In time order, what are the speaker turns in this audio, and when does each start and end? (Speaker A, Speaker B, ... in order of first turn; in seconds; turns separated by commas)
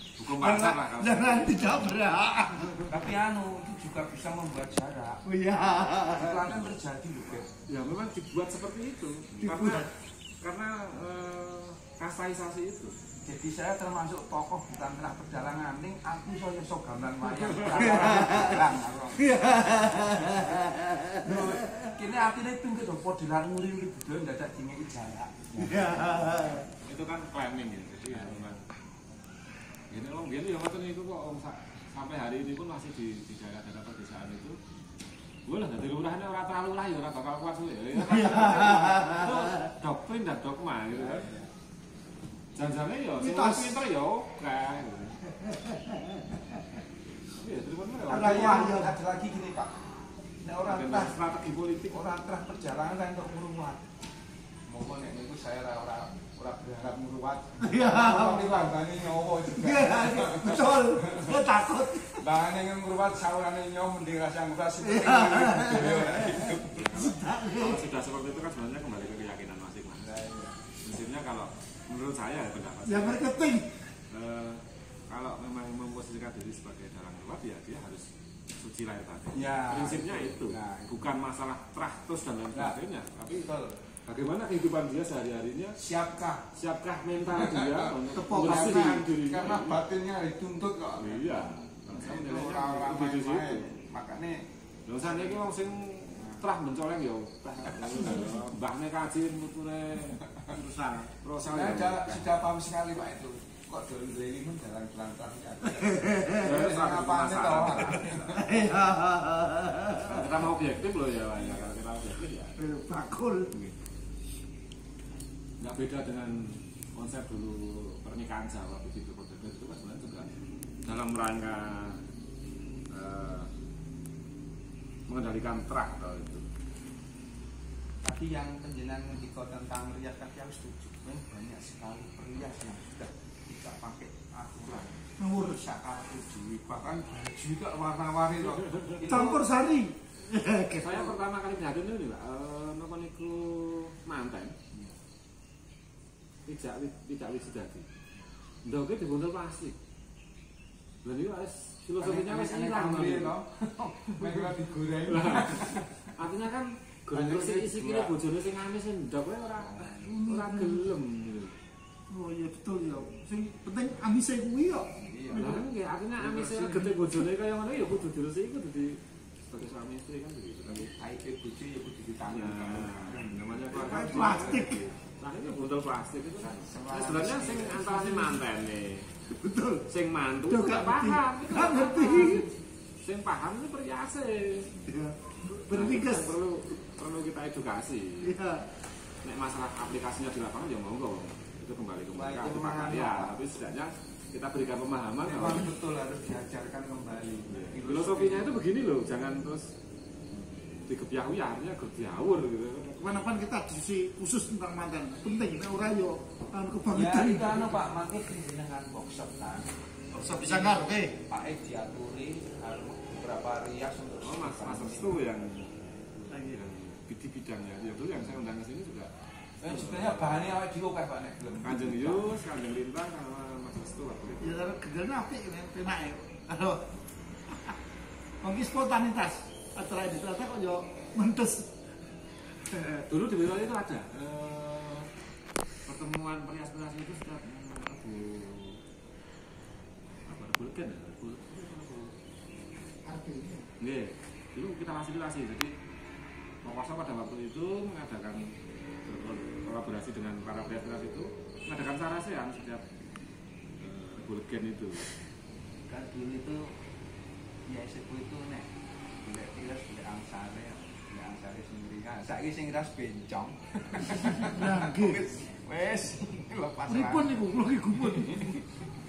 Speaker A: 0.2-2.0, Speaker B: 0.4-2.8, Speaker C: 2.8-5.2, Speaker B: 5.2-6.6, Speaker C: 6.1-7.5, Speaker A: 7.7-13.0, Speaker B: 9.4-9.9, Speaker C: 13.2-19.4, Speaker A: 17.4-18.0, Speaker B: 17.9-18.7, Speaker B: 19.2-21.9, Speaker C: 21.2-26.4, Speaker B: 25.6-26.7, Speaker A: 26.8-28.6, Speaker C: 28.1-28.4, Speaker A: 29.9-34.6, Speaker A: 35.5-41.3, Speaker B: 38.0-39.5, Speaker C: 40.9-41.5, Speaker A: 42.5-45.2, Speaker B: 43.2-43.8, Speaker B: 45.3-46.8, Speaker A: 47.3-48.8, Speaker C: 48.1-49.7, Speaker B: 48.1-48.9, Speaker C: 50.4-51.1, Speaker A: 50.6-52.1, Speaker C: 51.9-53.8, Speaker C: 54.7-61.3, Speaker B: 57.6-58.7, Speaker B: 59.5-62.2, Speaker C: 62.2-66.8, Speaker B: 64.8-67.8, Speaker A: 66.5-70.0, Speaker C: 70.0-70.6, Speaker A: 70.8-73.3, Speaker B: 72.8-73.9, Speaker A: 74.1-78.0, Speaker A: 78.6-83.5, Speaker C: 79.3-80.9, Speaker C: 83.3-83.8, Speaker A: 84.0-85.8, Speaker C: 85.8-86.5, Speaker A: 86.5-89.8, Speaker C: 87.3-94.4, Speaker B: 88.1-89.0, Speaker A: 91.0-93.7, Speaker A: 94.9-102.4, Speaker C: 95.0-95.5, Speaker C: 96.2-96.4, Speaker C: 97.7-98.1, Speaker C: 100.2-100.5, Speaker C: 101.4-108.4, Speaker B: 105.8-106.4, Speaker A: 106.3-108.5, Speaker B: 108.1-110.5, Speaker A: 110.0-112.6, Speaker C: 111.3-111.7, Speaker B: 112.6-113.5, Speaker A: 115.6-120.3, Speaker A: 120.8-122.0, Speaker A: 122.9-123.5, Speaker A: 125.1-126.4, Speaker C: 128.0-139.4, Speaker B: 135.2-135.6, Speaker B: 139.0-141.1, Speaker A: 140.7-144.5, Speaker A: 146.5-147.8, Speaker A: 148.6-149.8, Speaker A: 151.0-153.3, Speaker C: 152.0-156.1, Speaker A: 154.2-154.5, Speaker A: 155.1-161.5, Speaker C: 157.1-158.1, Speaker C: 159.6-160.0, Speaker B: 160.0-160.9, Speaker B: 162.1-165.6, Speaker C: 165.0-165.6, Speaker A: 165.3-170.9, Speaker C: 166.2-166.9, Speaker C: 170.9-174.8, Speaker A: 172.3-179.1, Speaker B: 173.7-174.8, Speaker C: 176.4-178.1, Speaker B: 179.3-179.9, Speaker A: 179.9-182.5, Speaker B: 180.5-182.5, Speaker A: 183.0-184.7, Speaker B: 184.8-186.4, Speaker A: 185.7-188.3, Speaker B: 188.2-188.7, Speaker A: 189.2-195.7, Speaker C: 192.1-193.4, Speaker C: 195.2-198.5, Speaker A: 197.5-199.7, Speaker A: 200.8-203.1, Speaker B: 203.0-207.7, Speaker C: 206.9-209.7, Speaker B: 210.1-211.1, Speaker C: 210.2-215.2, Speaker A: 214.2-220.5, Speaker B: 216.3-216.6, Speaker C: 219.6-222.2, Speaker A: 221.6-224.6, Speaker B: 224.4-227.8, Speaker B: 228.4-231.7, Speaker A: 232.8-235.1, Speaker A: 235.8-238.8, Speaker A: 240.2-242.1, Speaker B: 243.0-243.7, Speaker A: 243.8-245.7, Speaker A: 246.6-248.5, Speaker A: 249.1-252.8, Speaker A: 253.8-255.1, Speaker C: 255.9-256.7, Speaker C: 257.7-258.7, Speaker C: 259.2-267.5, Speaker B: 264.2-265.2, Speaker B: 266.9-268.5, Speaker C: 268.0-268.9